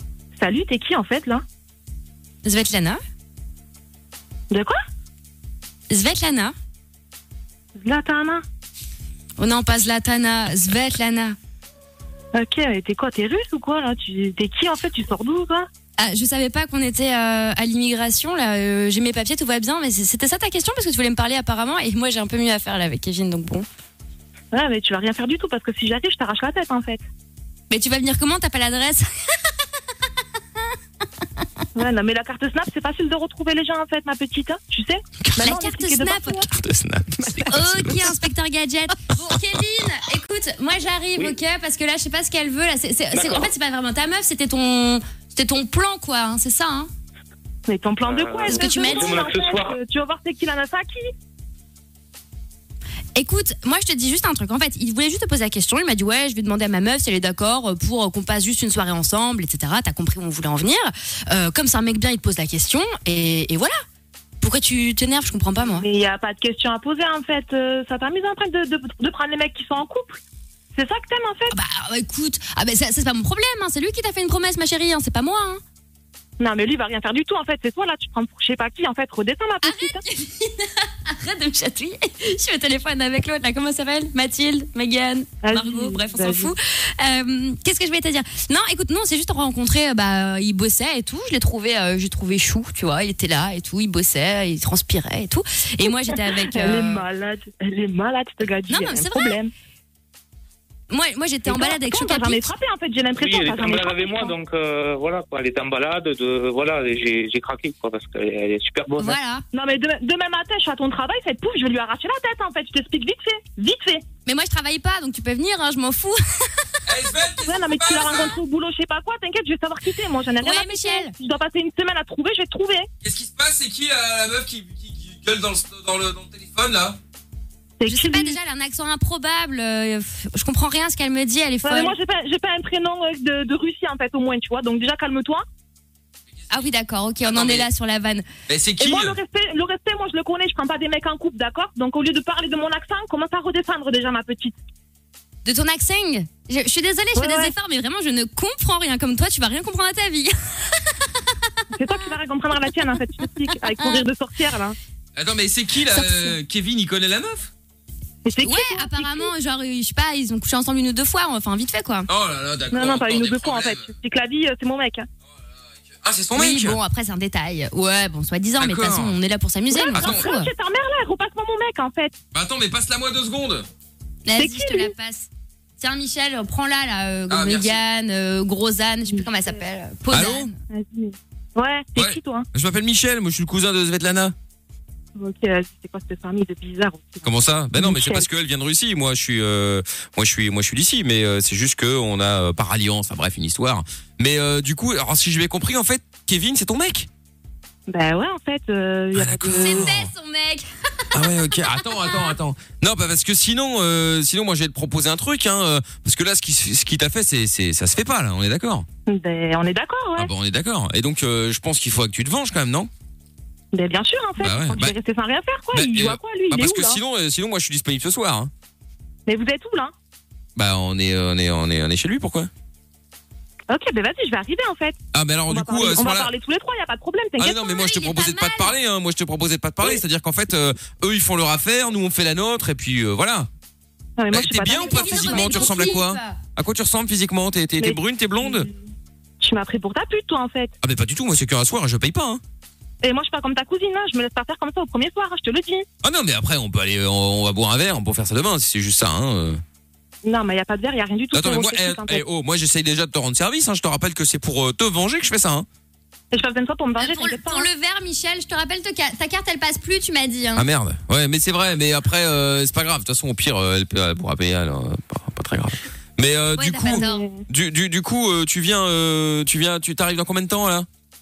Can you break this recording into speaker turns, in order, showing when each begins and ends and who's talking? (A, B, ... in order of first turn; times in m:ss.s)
0:00.4-0:01.4 A
0:02.4-0:03.0 B
0:04.5-0:04.8 A
0:05.9-0:06.5 B
0:07.8-0:08.4 A
0:09.4-0:11.4 B
0:12.3-0:15.7 A
0:16.0-0:23.6 B
0:24.5-0:27.0 A
0:27.7-0:29.1 B
0:31.7-0:36.5 A
0:35.4-0:36.4 B
0:36.5-0:38.1 C
0:37.5-0:46.9 B
0:43.1-0:43.5 D
0:47.7-0:51.1 A
0:48.0-0:49.8 D
0:48.5-0:49.2 B
0:53.1-1:03.8 B
1:04.4-1:05.8 B
1:05.7-1:10.2 A
1:10.7-1:11.5 A
1:11.5-1:15.6 B
1:16.4-1:20.0 A
1:19.6-1:37.0 B
1:25.4-1:26.5 A
1:35.9-1:39.5 A
1:38.7-1:39.4 B
1:40.9-1:42.5 B
1:41.5-1:44.3 A
1:43.2-1:49.1 D
1:49.0-1:49.4 B
1:49.5-1:54.0 A
1:54.2-1:56.6 B
1:56.9-1:58.4 C
1:57.4-2:02.9 A
2:00.4-2:01.1 B
2:03.0-2:07.0 C
2:07.8-2:08.3 A
2:07.9-2:11.9 B
2:11.6-2:15.4 A
2:16.5-2:18.2 B
2:17.2-2:17.7 C
2:18.5-2:19.2 C
2:18.8-2:24.5 A
2:25.4-2:31.3 B
2:27.1-2:27.5 A
2:31.7-2:34.8 A
2:33.7-2:34.0 B
2:35.1-2:37.5 C
2:36.1-2:36.3 B
2:38.2-2:39.3 A
2:38.4-2:42.1 B
2:42.1-2:43.9 C
2:42.7-2:45.1 A
2:45.9-2:46.8 C
2:46.3-2:50.5 B
2:48.6-2:49.2 C
2:49.7-2:52.2 A
2:49.9-2:50.3 C
2:52.3-2:53.7 C
2:54.2-2:55.3 B
2:54.4-2:54.9 A
2:55.8-3:00.5 B
2:57.3-2:57.8 C
3:00.1-3:00.5 C
3:00.7-3:02.5 A
3:02.0-3:04.3 C
3:05.2-3:08.2 A
3:07.2-3:17.1 C
3:17.9-3:19.9 A
3:19.1-3:20.1 C
3:19.5-3:22.3 B
3:21.1-3:28.8 C
3:29.1-3:30.3 A
3:30.2-3:32.9 C
3:33.7-3:37.0 A
3:34.4-3:35.0 C
3:35.7-3:38.5 C
3:39.3-3:39.9 A
3:40.6-3:42.5 C
3:43.7-3:47.6 A
3:45.1-3:46.3 C
3:47.4-3:53.5 C
3:47.5-3:48.7 B
3:54.2-3:56.0 A
3:54.3-3:58.7 C
3:54.7-3:56.4 B
3:57.8-3:58.8 A
3:59.4-4:00.7 A
4:00.8-4:02.4 C
4:03.0-4:05.8 A
4:06.0-4:09.6 C
4:10.2-4:12.2 A
4:11.3-4:15.7 C
4:16.3-4:17.7 A
4:17.0-4:20.7 B
4:20.5-4:30.9 C
4:26.5-4:27.3 B
4:26.9-4:27.4 A